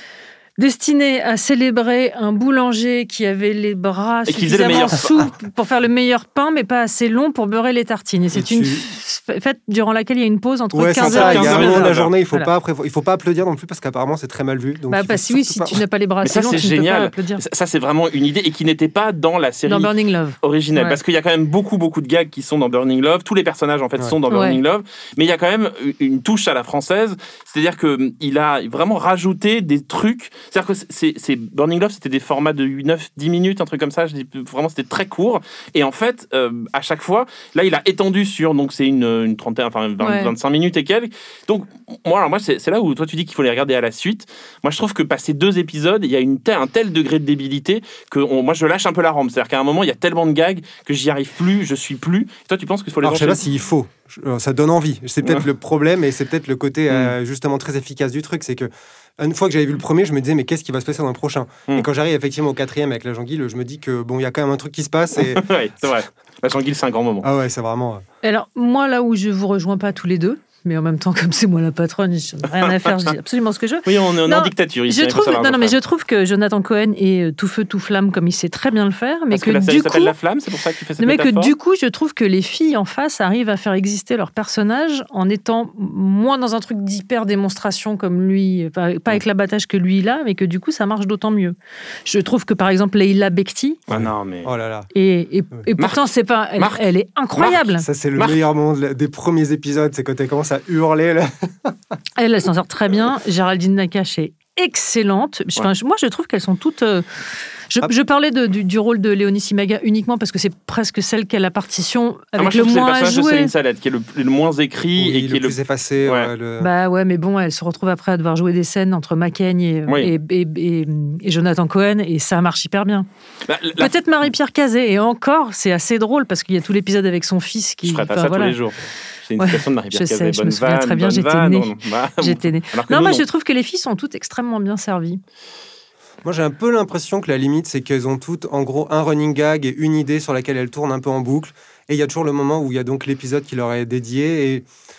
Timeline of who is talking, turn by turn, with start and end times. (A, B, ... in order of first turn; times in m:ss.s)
0:00.6-0:12.5 A
0:04.3-0:05.3 B
0:08.3-0:08.9 C
0:10.7-0:15.8 C
0:11.0-0:12.1 B
0:14.9-0:17.4 A
0:16.2-0:53.4 B
0:19.7-0:21.0 A
0:24.3-0:24.6 A
0:40.0-0:40.3 A
0:53.0-1:05.5 C
0:56.9-0:57.2 B
1:05.2-1:07.3 B
1:07.2-1:08.0 C
1:08.2-1:20.2 A
1:13.9-1:15.8 B
1:19.3-1:21.5 B
1:21.0-1:33.8 A
1:33.9-1:34.5 B
1:33.9-1:34.9 C
1:34.9-1:37.9 A
1:35.8-1:36.1 B
1:36.6-1:36.8 B
1:37.4-1:37.6 B
1:37.8-1:41.8 C
1:38.2-1:38.4 B
1:42.2-1:47.1 A
1:47.7-1:53.5 A
1:52.4-1:56.3 B
1:55.0-1:56.7 C
1:56.6-2:03.1 A
1:59.9-2:00.1 B
2:03.5-2:03.9 B
2:03.8-2:08.6 A
2:07.8-2:13.2 B
2:09.4-2:15.2 A
2:16.2-2:24.7 C